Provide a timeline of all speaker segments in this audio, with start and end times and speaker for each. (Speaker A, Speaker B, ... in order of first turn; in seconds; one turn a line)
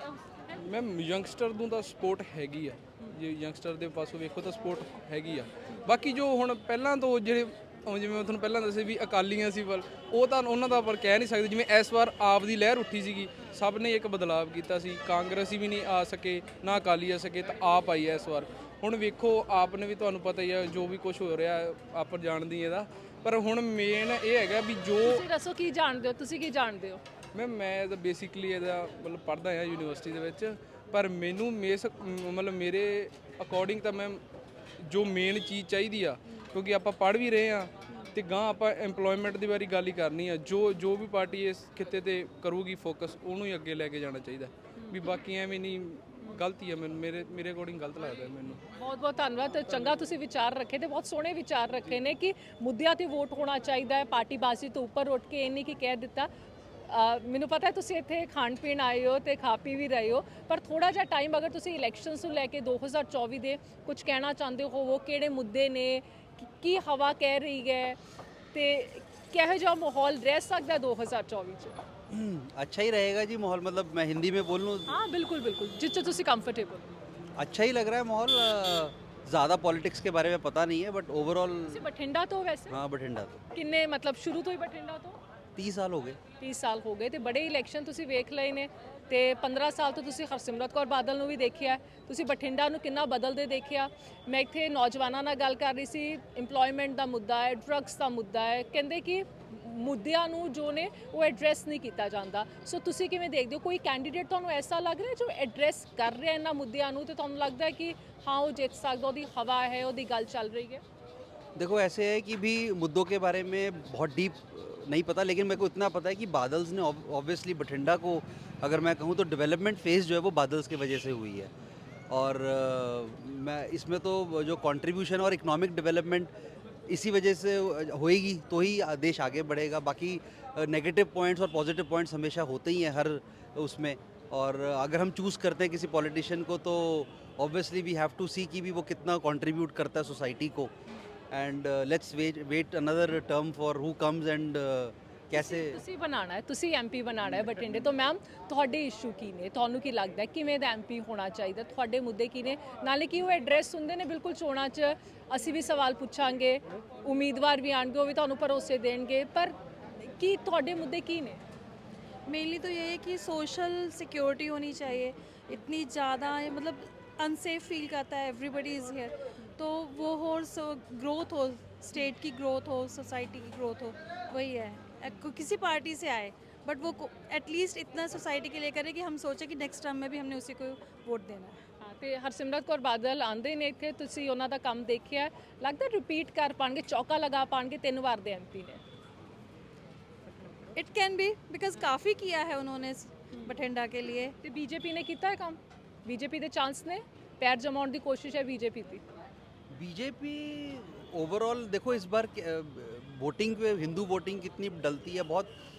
Speaker A: 0.5-25.2
Speaker B: 25.0-27.0
Speaker A: 27.3-34.2
Speaker A: 34.8-48.6
Speaker B: 48.7-56.3
Speaker B: 56.9-68.0
Speaker B: 68.5-71.8
Speaker C: 72.1-74.9
Speaker B: 74.9-76.9
Speaker C: 77.4-81.8
Speaker B: 81.7-82.7
Speaker C: 82.7-83.4
Speaker B: 83.5-85.2
Speaker C: 85.5-86.2
Speaker B: 86.4-110.8
Speaker C: 111.5-121.5
Speaker C: 122.1-126.3
Speaker C: 126.9-140.7
Speaker C: 141.3-145.8
Speaker B: 145.3-161.4
Speaker D: 162.3-181.6
Speaker B: 181.8-188.8
Speaker D: 190.7-194.3
Speaker B: 194.4-199.0
Speaker C: 199.7-205.5